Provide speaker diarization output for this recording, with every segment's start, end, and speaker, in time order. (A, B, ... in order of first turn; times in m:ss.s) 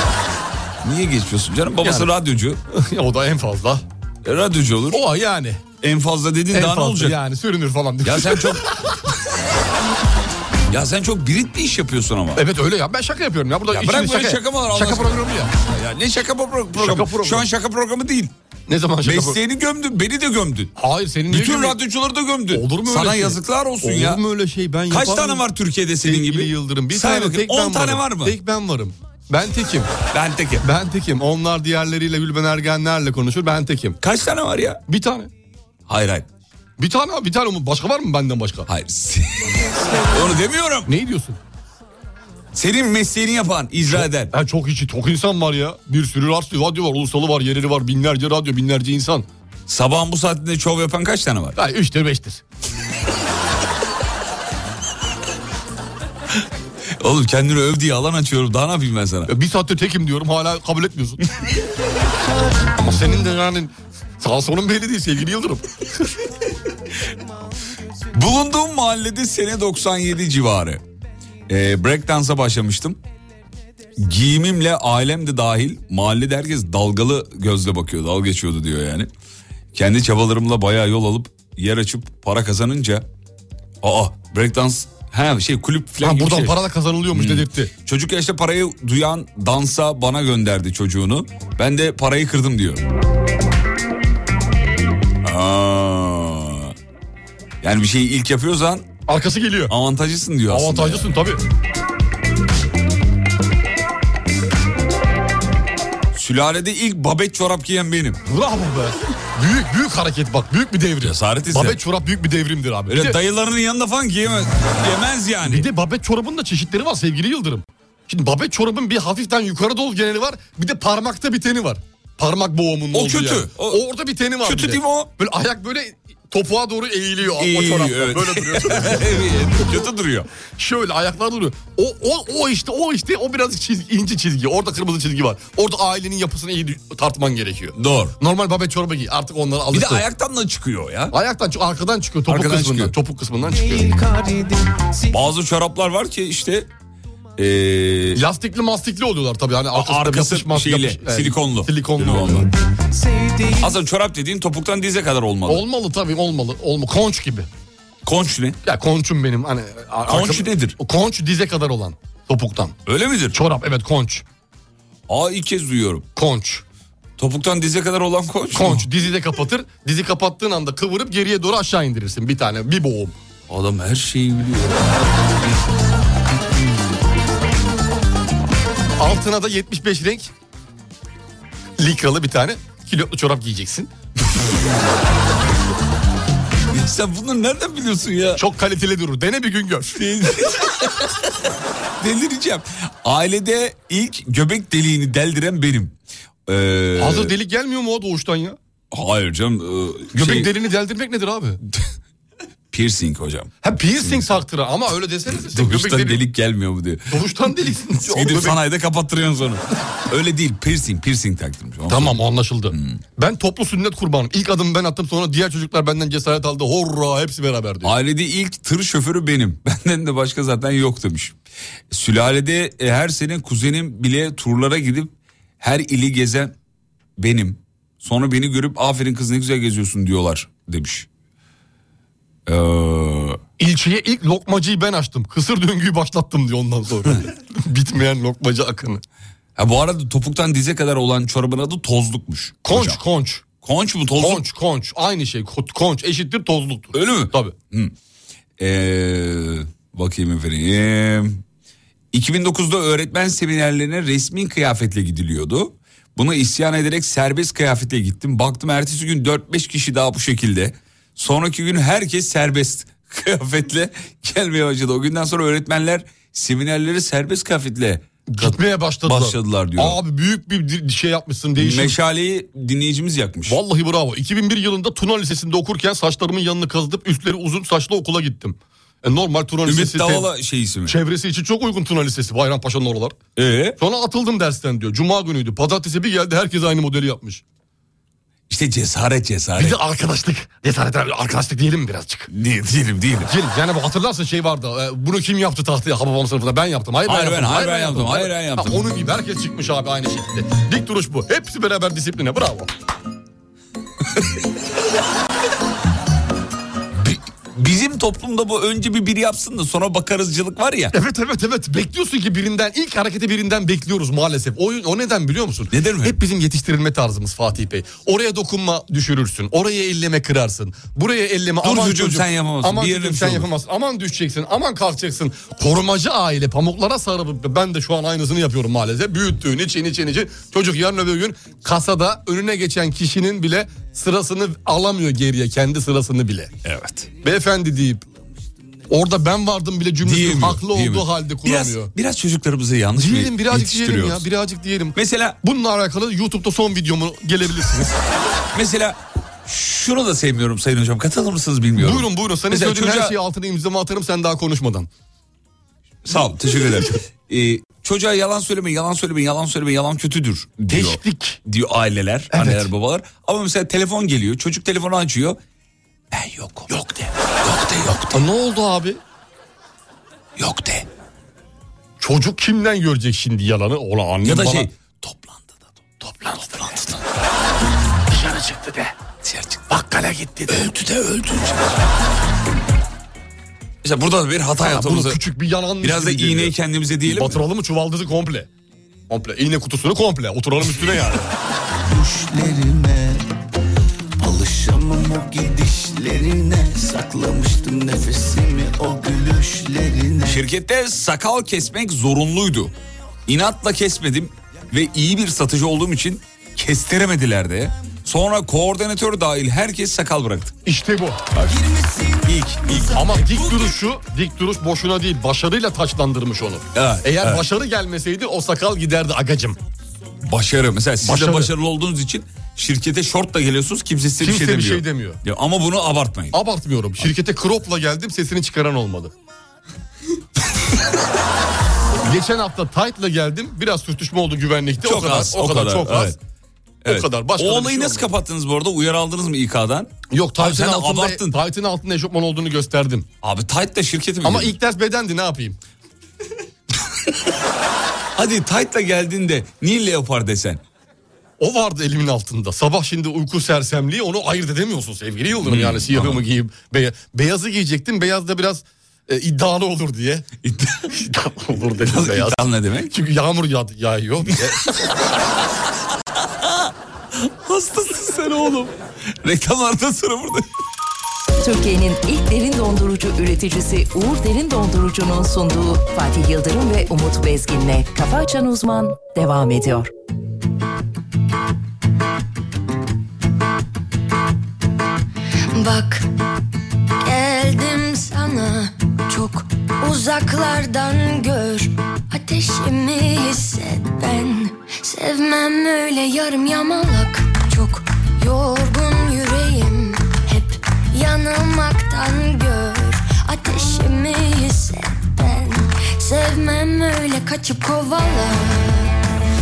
0:00.8-0:02.6 A
0:01.8-0:02.1 B
0:02.7-0:03.8 B
0:04.2-0:05.0 A
0:04.9-0:05.6 B
0:05.8-0:07.2 A
0:06.5-0:08.9 B
0:08.0-0:08.7 A
0:10.7-0:12.4 A
0:12.4-0:15.5 B
0:13.7-0:18.3 A
0:16.7-0:17.5 B
0:18.7-0:19.4 B
0:19.0-0:20.7 A
0:20.8-0:21.8 B
0:21.3-0:24.2 A
0:22.5-0:25.4 B
0:24.9-0:28.3 A
0:26.0-0:29.9 B
0:30.1-0:30.6 A
0:30.6-0:34.0 B
0:34.0-0:34.8 A
0:34.9-0:35.3 B
0:35.9-0:36.3 A
0:36.8-0:38.7 B
0:38.7-0:40.9 A
0:40.8-0:41.4 B
0:42.5-0:44.3 A
0:43.8-0:49.3 B
0:49.7-0:51.6 A
0:51.6-0:52.4 B
0:57.0-0:59.3 A
0:59.3-1:01.2 B
1:02.8-1:06.1 B
1:08.1-1:10.8 A
1:11.5-1:13.0 A
1:14.0-1:19.1 A
1:19.7-1:23.0 A
1:23.8-1:26.6 A
1:26.0-1:27.7 B
1:27.1-1:32.8 A
1:35.2-1:36.7 A
1:37.6-1:38.9 A
1:39.1-1:39.7 B
1:39.7-1:41.1 A
1:40.5-1:41.4 B
1:46.1-1:48.2 A
1:48.2-1:53.2 B
1:51.0-1:51.8 A
1:52.9-1:55.7 A
1:55.4-2:09.3 B
2:02.9-2:03.8 A
2:04.4-2:05.1 A
2:07.4-2:10.3 A
2:10.6-2:20.0 B
2:17.8-2:18.1 A
2:19.7-2:21.1 A
2:21.1-2:23.9 B
2:22.3-2:22.9 A
2:25.1-2:26.7 A
2:27.4-2:28.2 A
2:28.1-2:32.5 B
2:29.7-2:32.5 A
2:33.6-2:35.6 A
2:35.4-2:37.5 B
2:38.0-2:38.6 A
2:38.6-2:42.8 B
2:40.1-2:40.8 A
2:42.9-2:43.4 A
2:43.3-2:44.2 B
2:45.1-2:46.1 A
2:46.2-2:46.6 B
2:47.2-2:48.8 A
2:48.5-2:53.2 B
2:53.5-2:55.5 A
2:59.0-3:00.3 B
3:01.8-3:03.9 B
3:06.7-3:08.4 A
3:08.3-3:10.1 B
3:10.0-3:11.3 A
3:12.0-3:15.9 A
3:16.5-3:17.3 A
3:17.0-3:18.6 B
3:18.9-3:20.5 A
3:20.1-3:21.6 B
3:22.7-3:23.5 A
3:23.6-3:26.2 B
3:24.0-3:24.3 A
3:25.5-3:27.2 A
3:27.1-3:28.6 B
3:28.0-3:32.2 A
3:31.9-3:37.9 B
3:32.7-3:33.0 A
3:37.8-3:41.4 A
3:41.9-3:46.5 A
3:47.2-3:51.1 A
3:52.4-3:53.4 A
3:53.6-3:59.0 B
3:59.6-4:03.0 A
4:02.6-4:03.4 B
4:03.6-4:04.4 A
4:04.1-4:07.5 B
4:06.9-4:07.9 A
4:08.6-4:11.4 A
4:12.1-4:30.0 A
4:28.3-4:32.0 B
4:31.6-4:33.6 A
4:33.4-4:40.3 B
4:39.6-4:41.0 A
4:40.8-4:43.2 B
4:43.4-4:43.8 A
4:43.8-4:47.4 B
4:48.5-4:49.8 A
4:49.5-4:52.3 B
4:52.3-4:53.3 A
4:53.2-5:02.7 B
4:57.0-4:58.8 A
5:06.9-5:10.9 A
5:10.9-5:36.5 B
5:15.7-5:16.1 A
5:21.6-5:23.4 A
5:36.6-5:37.1 A
5:37.2-5:38.0 B
5:38.9-5:41.9 B
5:40.0-5:44.2 A
5:42.9-5:48.0 B
5:44.9-5:45.4 A
5:48.5-5:53.2 A
5:51.8-5:54.9 B
5:56.0-6:05.4 A
6:00.7-6:01.4 B
6:02.3-6:02.7 B
6:06.1-6:06.7 A
6:06.7-6:07.1 B
6:07.4-6:08.2 A
6:08.1-6:09.0 B
6:10.4-6:10.8 A
6:12.0-6:14.7 B
6:14.2-6:15.5 A
6:16.2-6:16.8 B
6:16.4-6:16.9 A
6:18.1-6:18.9 B
6:19.2-6:19.6 A
6:19.7-6:20.7 B
6:20.5-6:21.8 A
6:23.8-6:25.2 A
6:24.6-6:28.5 B
6:25.8-6:27.4 A
6:29.1-6:31.3 B
6:31.9-6:33.2 C
6:34.2-6:40.4 C
6:40.2-6:42.7 A
6:43.3-6:50.5 A
6:50.6-6:51.2 B
6:51.3-6:53.6 A
6:52.8-6:59.6 B
6:56.7-6:57.4 A
7:00.2-7:06.4 A
7:01.0-7:01.5 B
7:04.2-7:05.2 B
7:06.3-7:09.1 B
7:12.0-7:16.2 B
7:14.8-7:16.2 A
7:16.8-7:21.3 A
7:16.9-7:18.1 B
7:20.1-7:23.1 B
7:23.2-7:24.5 A
7:24.2-7:25.6 B
7:28.2-7:30.6 A
7:31.4-7:40.3 B
7:35.4-7:36.2 A
7:40.4-7:40.9 A
7:40.9-7:44.8 B
7:41.9-7:42.9 A
7:46.4-7:50.5 A
7:51.4-7:59.9 D
8:05.5-8:06.1 E
8:07.0-8:29.0 E